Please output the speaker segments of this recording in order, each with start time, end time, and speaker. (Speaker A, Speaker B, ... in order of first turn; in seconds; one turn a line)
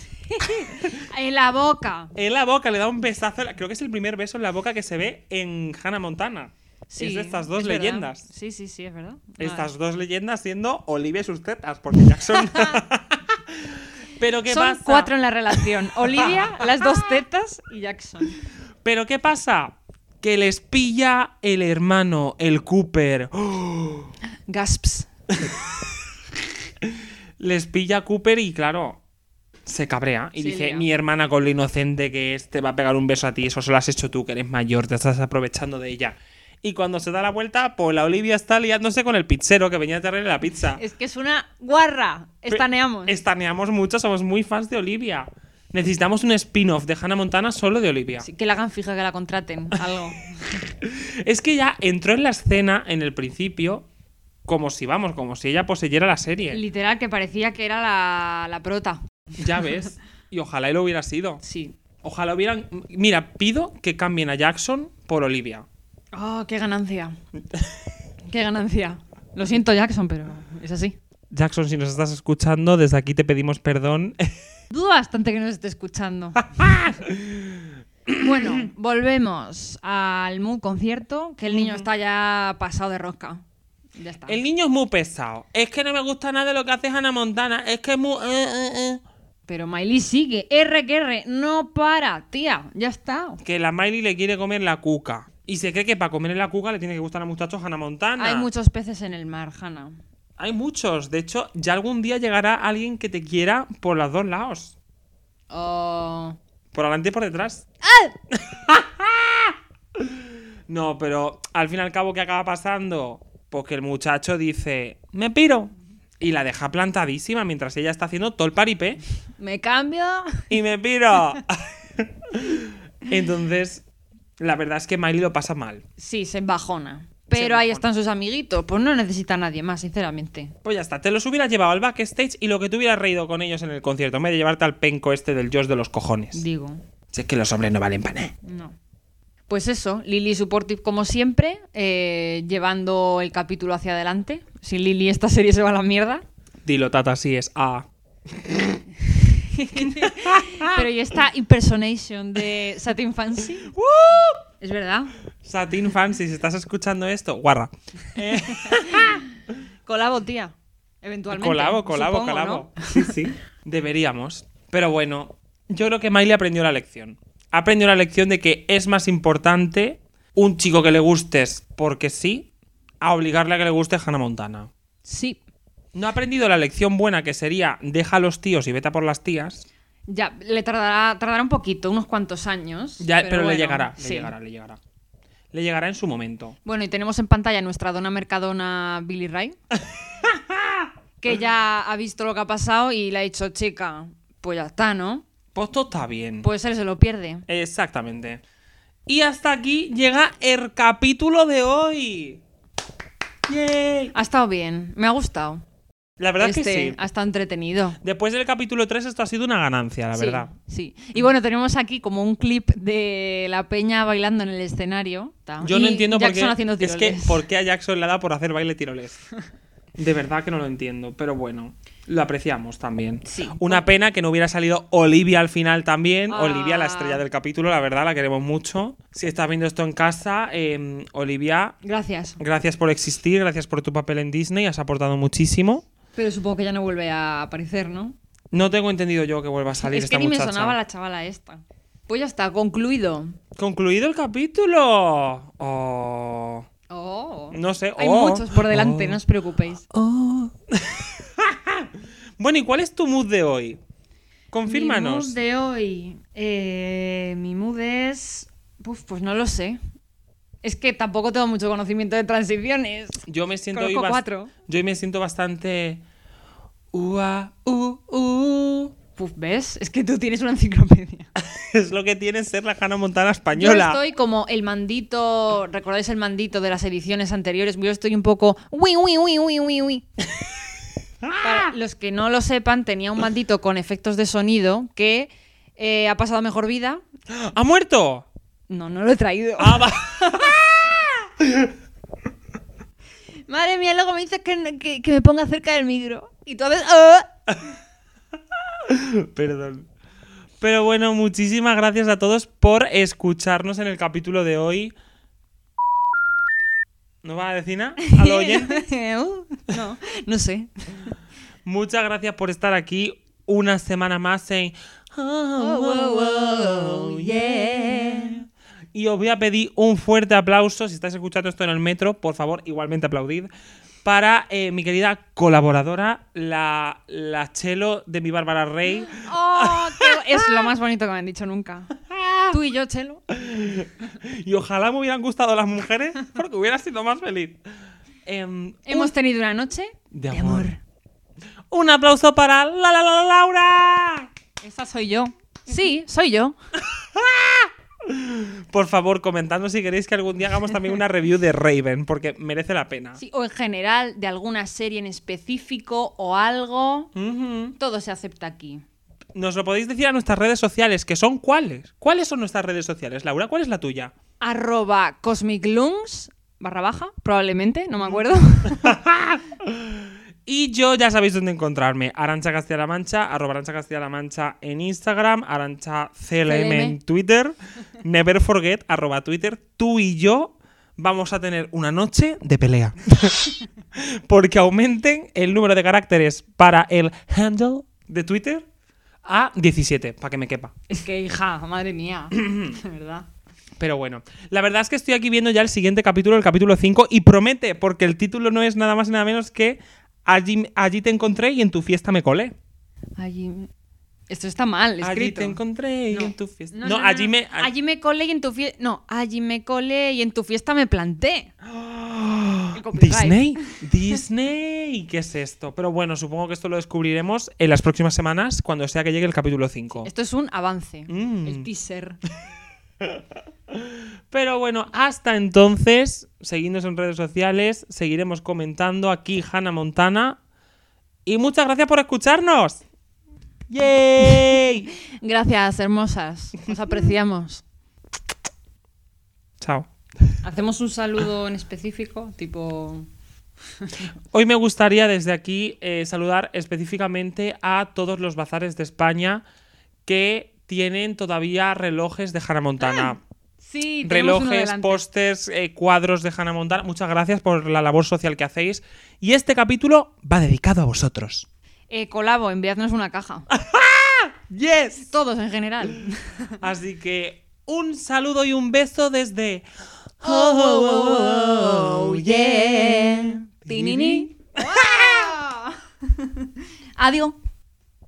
Speaker A: 0.2-2.1
Speaker B: 2.1-8.2
Speaker A: 6.9-9.7
Speaker B: 9.4-17.0
Speaker A: 12.3-12.8
Speaker A: 14.5-18.4
Speaker B: 18.8-24.1
Speaker A: 24.5-25.1
Speaker B: 25.4-25.7
Speaker B: 26.8-29.0
Speaker B: 29.6-40.8
Speaker A: 30.4-30.9
Speaker A: 40.8-43.2
Speaker B: 42.5-48.3
Speaker A: 48.2-50.4
Speaker B: 50.8-53.9
Speaker B: 54.5-56.6
Speaker A: 56.5-59.0
Speaker B: 59.4-61.4
Speaker A: 61.4-61.8
Speaker B: 62.0-65.7
Speaker A: 66.1-67.2
Speaker A: 68.3-71.0
Speaker B: 71.3-74.3
Speaker A: 74.7-76.4
Speaker B: 76.4-78.7
Speaker A: 78.2-83.4
Speaker B: 81.5-81.9
Speaker A: 84.0-84.4
Speaker B: 84.3-89.0
Speaker A: 89.5-93.4
Speaker B: 93.4-98.5
Speaker A: 98.2-100.0
Speaker B: 100.4-104.7
Speaker A: 105.5-106.4
Speaker B: 106.7-107.7
Speaker A: 107.8-108.1
Speaker B: 108.3-119.0
Speaker A: 119.4-120.5
Speaker B: 120.5-123.8
Speaker B: 124.4-125.8
Speaker A: 126.0-130.5
Speaker B: 127.3-127.8
Speaker B: 130.6-136.4
Speaker A: 136.3-136.8
Speaker B: 137.1-138.3
Speaker A: 138.4-138.8
Speaker A: 139.5-146.2
Speaker B: 146.6-148.8
Speaker A: 149.3-153.7
Speaker B: 149.7-150.9
Speaker B: 153.7-154.4
Speaker A: 154.6-155.1
Speaker B: 155.4-159.2
Speaker A: 158.5-159.3
Speaker A: 159.8-163.2
Speaker B: 161.3-172.5
Speaker B: 173.0-174.7
Speaker A: 175.0-175.4
Speaker B: 175.9-179.7
Speaker A: 180.1-184.3
Speaker B: 183.0-184.8
Speaker B: 185.5-186.6
Speaker A: 186.6-189.6
Speaker B: 190.2-190.9
Speaker A: 191.2-195.2
Speaker B: 195.5-196.5
Speaker A: 196.4-197.5
Speaker B: 197.5-198.4
Speaker B: 199.1-202.4
Speaker B: 203.5-204.1
Speaker A: 204.1-205.6
Speaker B: 206.2-207.0
Speaker A: 206.4-208.0
Speaker B: 208.0-210.5
Speaker A: 210.1-217.4
Speaker B: 215.6-219.2
Speaker B: 220.0-231.8
Speaker A: 223.2-223.9
Speaker A: 226.3-227.2
Speaker A: 231.8-232.4
Speaker B: 232.4-235.9
Speaker A: 236.2-238.2
Speaker B: 238.5-240.8
Speaker A: 239.8-243.4
Speaker B: 243.6-246.7
Speaker A: 246.9-249.9
Speaker B: 247.5-249.2
Speaker B: 249.9-253.8
Speaker B: 254.5-255.3
Speaker A: 254.6-259.8
Speaker A: 260.6-264.5
Speaker B: 263.3-266.0
Speaker B: 266.9-268.9
Speaker A: 269.1-271.3
Speaker B: 271.4-274.0
Speaker A: 273.5-280.1
Speaker B: 281.2-281.7
Speaker A: 281.4-287.0
Speaker B: 287.3-288.2
Speaker A: 288.7-290.6
Speaker B: 289.6-291.7
Speaker A: 293.5-297.3
Speaker B: 298.6-299.9
Speaker B: 300.6-304.9
Speaker B: 307.2-308.8
Speaker A: 308.0-311.1
Speaker B: 311.6-323.5
Speaker A: 315.6-318.4
Speaker B: 324.0-330.7
Speaker A: 329.1-331.9
Speaker B: 332.0-332.6
Speaker A: 332.5-333.3
Speaker B: 333.3-337.6
Speaker B: 338.2-339.1
Speaker A: 338.9-340.8
Speaker B: 340.1-340.7
Speaker B: 341.7-344.3
Speaker A: 344.6-346.6
Speaker B: 346.8-353.2
Speaker A: 353.2-357.1
Speaker B: 357.1-357.8
Speaker A: 357.8-358.8
Speaker B: 359.3-364.1
Speaker A: 364.4-369.0
Speaker B: 368.7-388.6
Speaker A: 376.4-377.0
Speaker B: 389.2-390.8
Speaker A: 390.9-393.2
Speaker B: 392.3-392.8
Speaker B: 393.8-402.5
Speaker A: 403.2-403.7
Speaker A: 404.3-411.5
Speaker B: 405.0-407.7
Speaker B: 411.6-420.1
Speaker A: 412.7-413.8
Speaker A: 420.0-422.2
Speaker B: 421.1-421.7
Speaker B: 423.0-430.4
Speaker B: 431.2-432.8
Speaker B: 433.7-434.9
Speaker A: 434.2-437.6
Speaker B: 439.6-440.4
Speaker A: 440.4-443.1
Speaker A: 443.8-444.1
Speaker B: 444.3-449.4
Speaker B: 450.1-453.2
Speaker A: 452.8-455.0
Speaker B: 454.0-461.5
Speaker A: 461.9-463.5
Speaker B: 463.5-465.1
Speaker A: 465.1-466.6
Speaker B: 466.6-469.6
Speaker B: 470.2-473.1
Speaker A: 470.2-477.4
Speaker B: 473.6-475.3